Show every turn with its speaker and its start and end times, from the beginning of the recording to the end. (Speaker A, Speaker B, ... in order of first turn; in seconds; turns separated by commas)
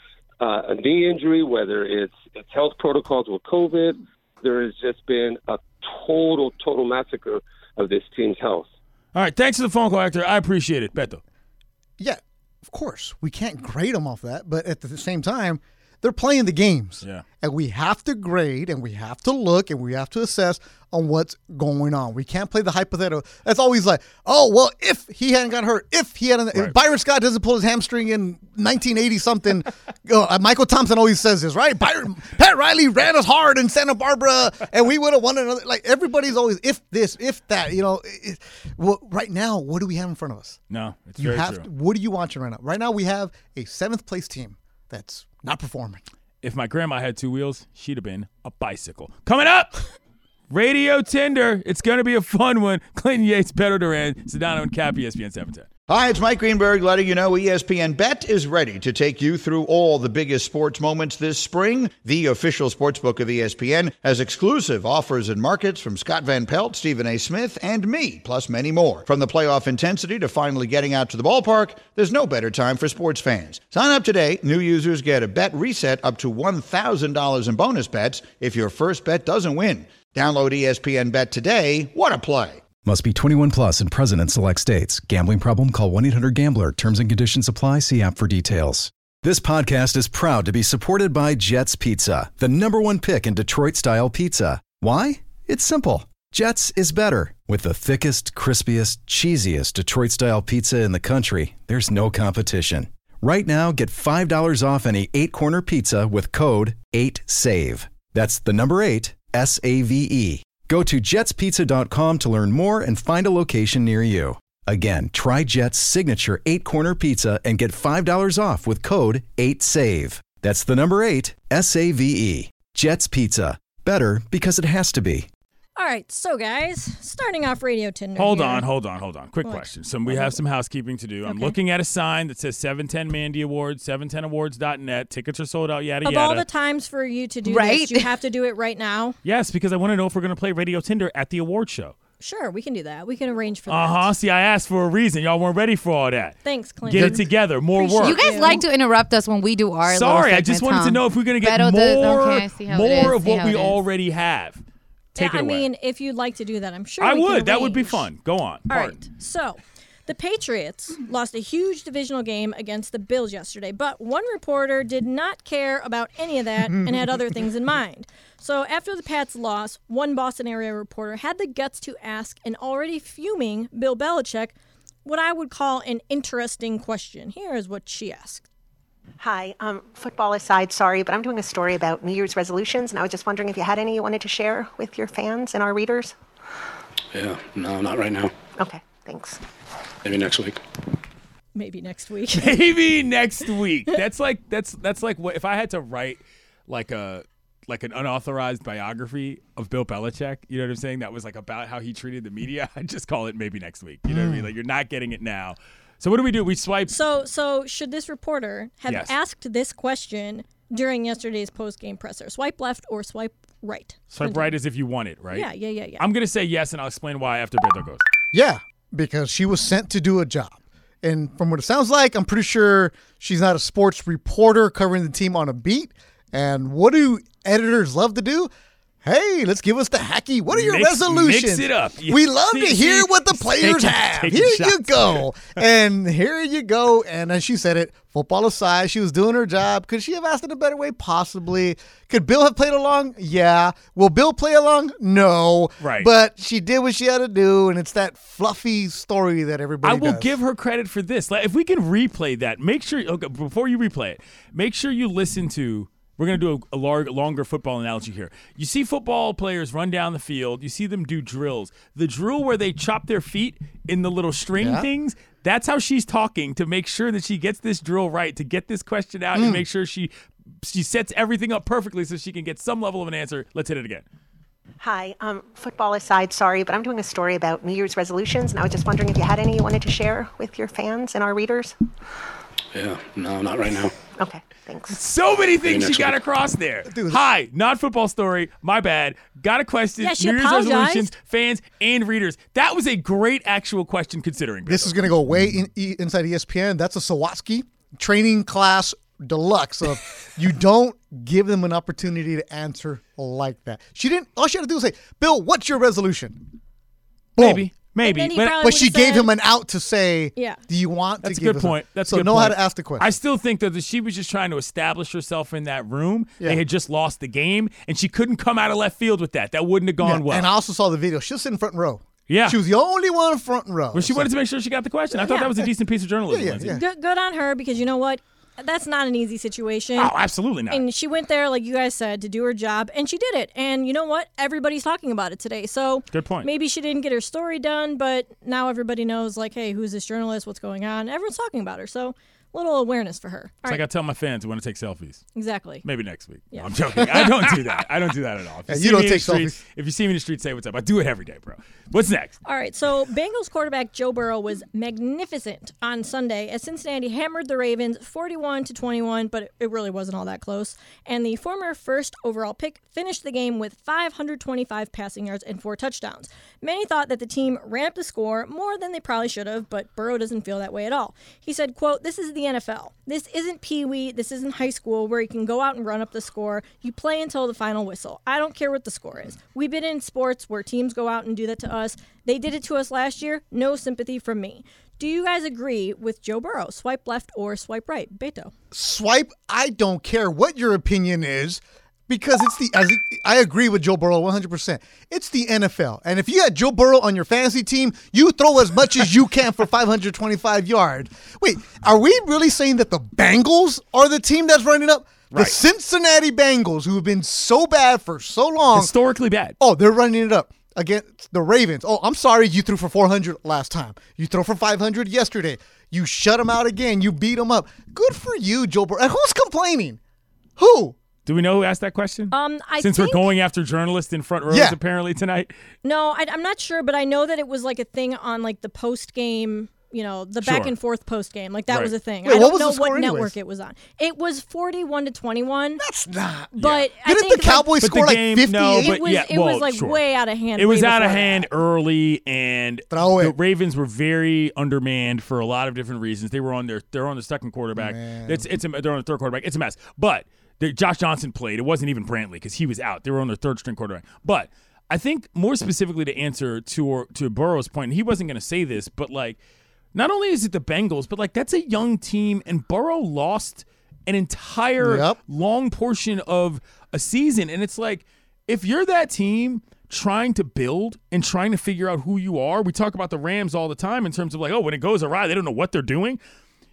Speaker A: 0.4-8.7, Speaker B: 9.1-11.2, Speaker C: 12.0-40.6, Speaker B: 40.7-41.6, Speaker C: 41.2-46.0, Speaker B: 46.4-49.9, Speaker B: 50.5-55.7, Speaker D: 55.9-82.7, Speaker E: 82.8-125.3, Speaker F: 125.8-128.7, Speaker B: 128.2-136.4, Speaker F: 129.4-130.4, Speaker F: 131.2-131.6, Speaker F: 136.0-139.2, Speaker G: 137.4-138.1, Speaker B: 139.2-141.9, Speaker F: 142.2-144.1, Speaker B: 143.7-148.6, Speaker F: 146.4-148.7, Speaker G: 148.0-153.8, Speaker B: 149.8-154.6, Speaker B: 155.1-155.7, Speaker F: 155.2-158.0, Speaker B: 157.0-159.0, Speaker F: 158.7-174.5, Speaker F: 175.0-178.4, Speaker H: 179.2-186.1, Speaker I: 187.1-188.3, Speaker H: 188.6-189.4, Speaker I: 190.0-190.6, Speaker F: 191.6-192.6, Speaker B: 192.3-206.9, Speaker C: 204.1-204.5, Speaker F: 206.9-214.5, Speaker B: 208.9-209.1, Speaker B: 214.1-218.0, Speaker F: 215.3-216.0, Speaker C: 218.3-228.5, Speaker C: 229.0-250.3, Speaker B: 230.5-235.2, Speaker B: 245.8-246.1, Speaker B: 249.8-270.1, Speaker C: 264.6-264.9, Speaker C: 269.3-269.6, Speaker B: 270.6-274.0, Speaker H: 274.8-281.7, Speaker I: 282.7-283.9, Speaker H: 284.2-285.0, Speaker B: 284.9-295.0, Speaker I: 285.6-286.2, Speaker C: 286.9-287.2, Speaker F: 290.0-291.1, Speaker C: 294.7-306.4, Speaker C: 307.4-307.7, Speaker B: 307.4-308.6, Speaker F: 308.0-309.3, Speaker C: 308.6-313.1, Speaker B: 311.2-320.5, Speaker C: 320.0-324.3, Speaker B: 322.3-322.6, Speaker B: 323.9-326.8, Speaker F: 325.2-325.6, Speaker C: 326.3-326.8, Speaker F: 326.7-330.1, Speaker B: 330.0-330.8, Speaker F: 330.7-343.8, Speaker B: 336.1-336.5, Speaker B: 343.6-345.2, Speaker F: 345.3-345.8, Speaker B: 345.8-352.3, Speaker F: 346.5-346.8, Speaker C: 347.0-347.5, Speaker C: 348.7-349.6, Speaker F: 352.4-388.5, Speaker C: 388.7-408.9, Speaker B: 405.3-405.6, Speaker B: 408.7-409.6, Speaker C: 409.6-420.0, Speaker C: 420.6-420.9, Speaker B: 421.2-425.5, Speaker F: 422.3-423.3, Speaker C: 424.5-424.8, Speaker F: 425.8-435.8, Speaker B: 430.4-430.7, Speaker C: 432.2-433.3, Speaker C: 435.8-439.0, Speaker B: 436.6-436.9, Speaker F: 436.6-437.7, Speaker B: 437.8-440.0, Speaker F: 438.8-441.5, Speaker B: 440.6-459.4, Speaker C: 442.9-443.3, Speaker C: 447.8-448.5, Speaker B: 459.9-476.2, Speaker C: 464.8-465.2